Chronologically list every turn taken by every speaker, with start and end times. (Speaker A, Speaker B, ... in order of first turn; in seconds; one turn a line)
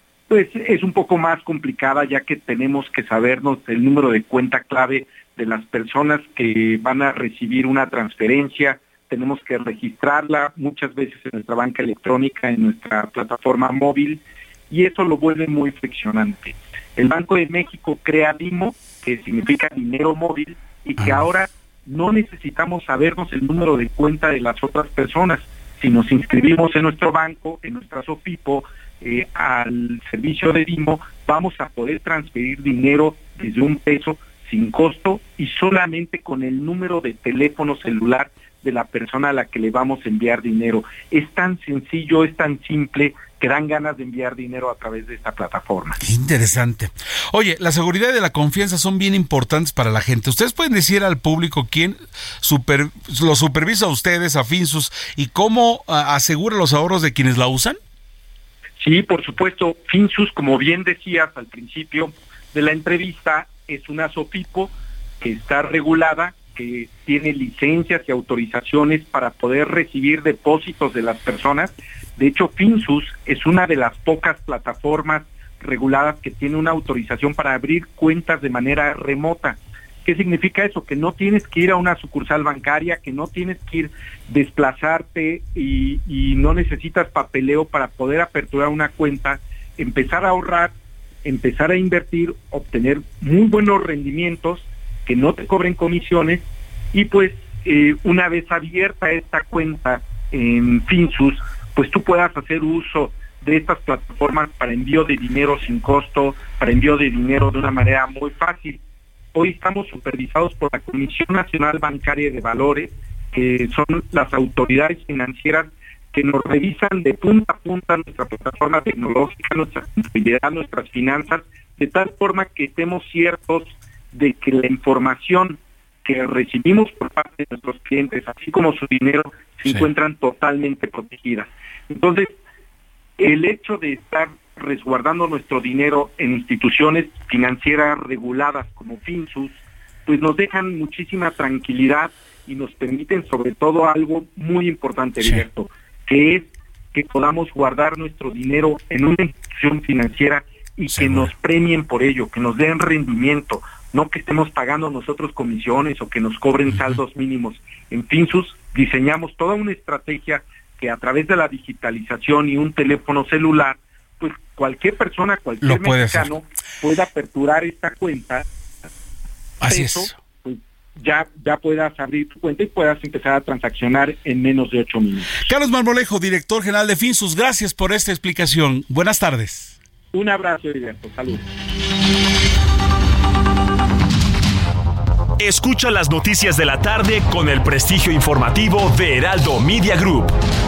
Speaker A: 0.3-46.0
Speaker B: 46.0-57.8
Speaker A: 58.8-108.8
Speaker A: 109.3-132.3
Speaker A: 133.2-168.4
Speaker B: 150.9-151.3
Speaker B: 165.6-166.3
Speaker B: 169.6-170.1
Speaker A: 169.7-175.5
Speaker B: 175.5-179.7
Speaker A: 180.1-181.4
Speaker C: 185.4-190.3